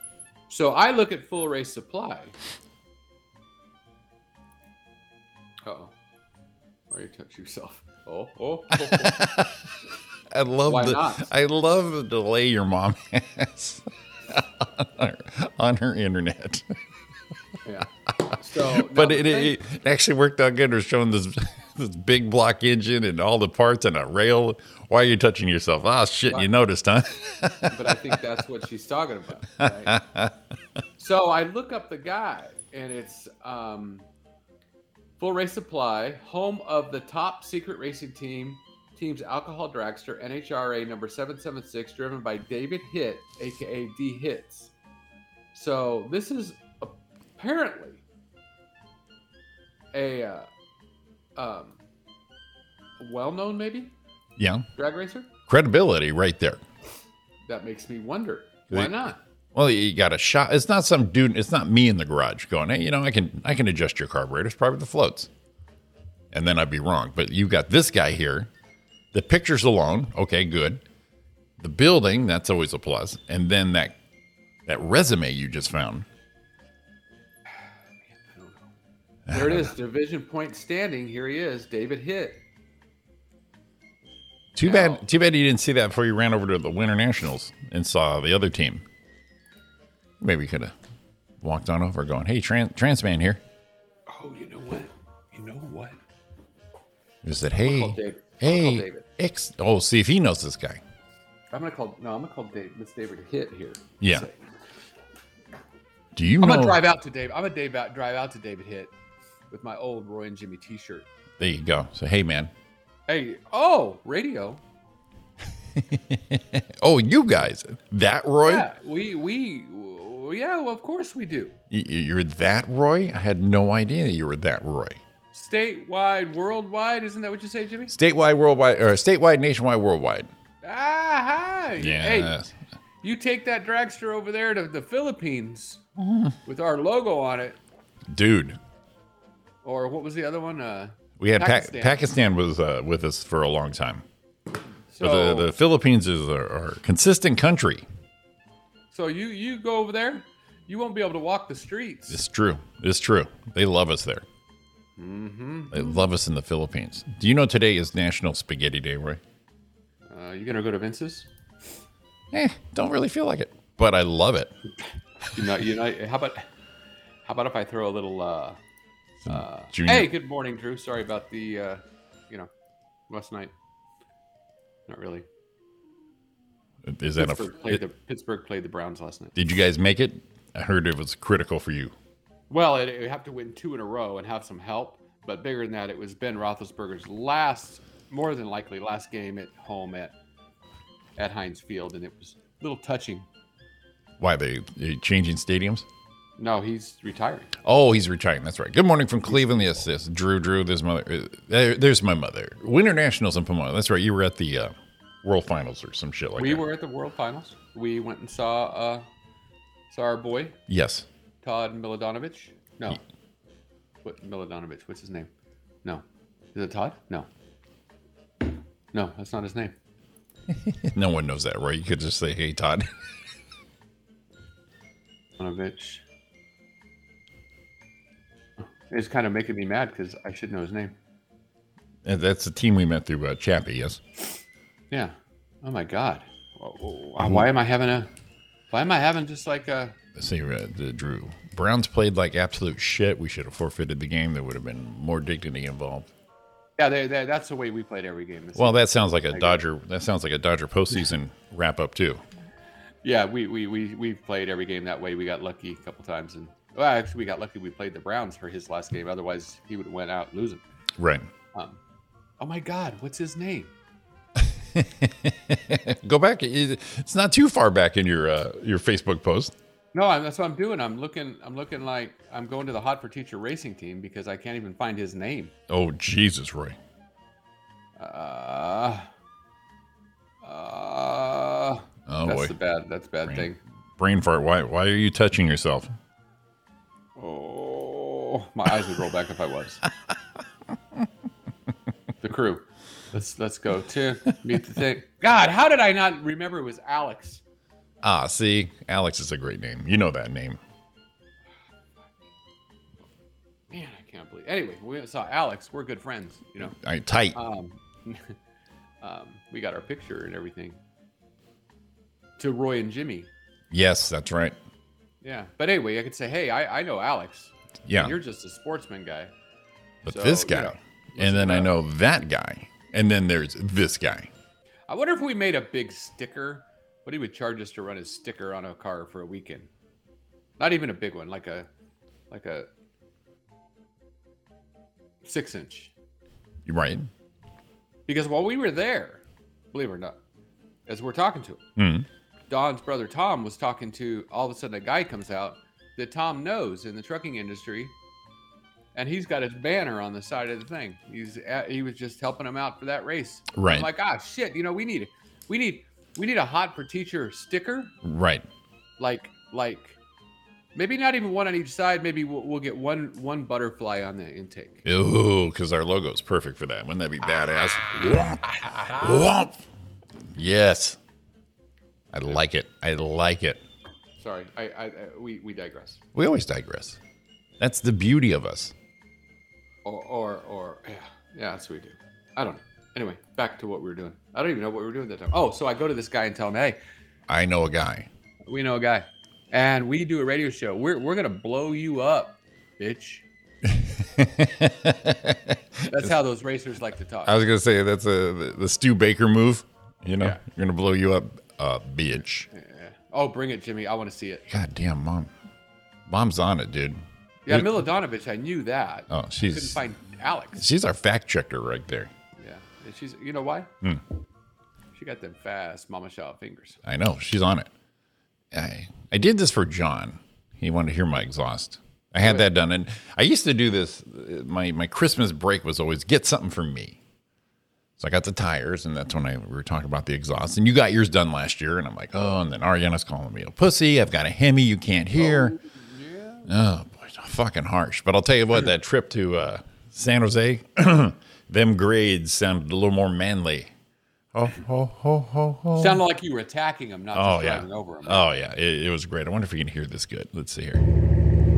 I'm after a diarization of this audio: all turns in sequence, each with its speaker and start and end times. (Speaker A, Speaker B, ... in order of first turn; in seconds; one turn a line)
Speaker A: 0.5-2.3
Speaker A: 5.6-5.9
Speaker A: 6.9-9.3
Speaker B: 8.7-9.6
Speaker B: 10.3-16.8
Speaker A: 10.7-11.3
Speaker A: 17.6-19.6
Speaker B: 18.3-28.2
Speaker A: 27.7-30.0
Speaker B: 29.6-30.4
Speaker A: 31.0-34.1
Speaker A: 35.2-44.7
Speaker A: 45.5-48.0
Speaker A: 49.9-50.5
Speaker A: 51.4-51.8
Speaker A: 53.0-53.9
Speaker B: 54.4-54.7
Speaker A: 54.8-55.3
Speaker B: 55.5-56.6
Speaker A: 57.5-59.2
Speaker B: 59.5-65.3
Speaker B: 66.3-68.5
Speaker B: 69.1-70.8
Speaker B: 71.6-74.0
Speaker B: 74.7-76.1
Speaker A: 78.1-78.7
Speaker B: 79.3-79.7
Speaker A: 79.3-82.4
Speaker B: 84.5-88.8
Speaker A: 84.6-85.0
Speaker B: 90.2-90.7
Speaker B: 91.4-93.4
Speaker A: 94.1-96.0
Speaker B: 97.2-100.8
Speaker A: 97.6-99.0
Speaker A: 101.5-104.3
Speaker B: 104.0-104.3
Speaker B: 106.1-106.8
Speaker A: 106.4-108.9
Speaker A: 109.5-111.1
Speaker B: 111.4-112.5
Speaker A: 113.1-114.6
Speaker B: 115.8-118.7
Speaker A: 118.4-121.6
Speaker B: 121.7-125.0
Speaker A: 125.3-127.9
Speaker B: 127.9-130.3
Speaker A: 130.6-132.3
Speaker B: 131.8-132.5
Speaker A: 133.0-135.8
Speaker B: 136.0-136.3
Speaker A: 136.4-137.6
Speaker B: 138.1-138.6
Speaker A: 139.6-142.0
Speaker B: 141.2-144.0
Speaker A: 144.9-145.5
Speaker B: 145.0-147.8
Speaker A: 148.9-152.2
Speaker B: 152.1-154.2
Speaker A: 155.0-155.9
Speaker B: 155.7-159.2
Speaker A: 160.1-161.3
Speaker B: 162.3-164.5
Speaker A: 165.3-166.4
Speaker A: 167.2-168.6
Speaker B: 169.2-170.1
Speaker A: 169.2-172.5
Speaker A: 173.1-173.5
Speaker A: 174.9-175.2
Speaker B: 176.8-177.8
Speaker A: 177.2-179.3
Speaker B: 179.3-181.9
Speaker A: 182.5-190.1
Speaker A: 191.2-193.3
Speaker B: 194.2-195.9
Speaker A: 196.4-197.5
Speaker B: 197.6-206.6
Speaker A: 199.2-199.9
Speaker A: 206.4-209.1
Speaker A: 209.9-210.6
Speaker B: 210.7-211.1
Speaker A: 211.4-213.0
Speaker A: 214.0-215.3
Speaker A: 216.5-217.3
Speaker A: 218.9-219.7
Speaker B: 220.5-222.9
Speaker A: 225.4-226.0
Speaker A: 228.9-230.9
Speaker B: 232.0-234.0
Speaker A: 234.9-238.1
Speaker B: 237.2-237.4
Speaker A: 238.7-239.9
Speaker B: 240.1-246.1
Speaker A: 246.8-249.6
Speaker B: 248.5-252.2
Speaker A: 253.0-260.6
Speaker B: 261.0-261.3
Speaker A: 261.5-261.8
Speaker A: 262.4-263.7
Speaker B: 264.4-269.5
Speaker A: 269.9-275.5
Speaker B: 275.7-276.8
Speaker A: 278.0-279.1
Speaker A: 280.4-283.6
Speaker B: 282.1-282.5
Speaker B: 283.2-285.9
Speaker A: 287.2-289.8
Speaker A: 292.2-297.4
Speaker B: 298.0-300.6
Speaker A: 303.7-306.7
Speaker B: 306.6-307.4
Speaker A: 307.3-308.4
Speaker A: 309.0-310.8
Speaker A: 312.4-313.3
Speaker B: 313.7-314.6
Speaker A: 315.2-319.3
Speaker B: 317.9-318.1
Speaker B: 320.0-324.3
Speaker A: 320.1-321.7
Speaker A: 324.9-329.7
Speaker A: 330.6-331.7
Speaker A: 332.3-332.7
Speaker A: 335.2-335.9
Speaker B: 336.6-337.1
Speaker A: 338.1-340.2
Speaker A: 340.9-341.6
Speaker B: 341.8-342.1
Speaker A: 342.5-347.9
Speaker A: 348.9-357.9
Speaker B: 353.5-353.9
Speaker B: 358.0-358.4
Speaker A: 359.0-360.0
Speaker A: 360.7-364.8
Speaker B: 364.8-369.6
Speaker A: 368.6-369.2
Speaker B: 370.3-371.0
Speaker B: 372.1-373.6
Speaker A: 374.2-376.0
Speaker B: 376.1-377.0
Speaker B: 377.6-378.7
Speaker A: 379.8-386.8
Speaker B: 387.3-388.1
Speaker A: 388.5-393.2
Speaker B: 393.6-396.1
Speaker A: 395.9-397.4
Speaker B: 397.2-402.5
Speaker A: 402.5-404.4
Speaker B: 404.5-405.3
Speaker B: 406.1-407.7
Speaker A: 407.4-410.6
Speaker B: 409.1-409.8
Speaker B: 410.6-412.1
Speaker A: 412.4-413.7
Speaker A: 414.9-416.8
Speaker B: 416.8-417.7
Speaker B: 418.5-427.0
Speaker A: 422.2-422.5
Speaker B: 428.0-435.6
Speaker A: 435.2-436.5
Speaker B: 436.5-443.7
Speaker B: 444.3-446.0
Speaker A: 445.7-448.3
Speaker B: 447.1-450.8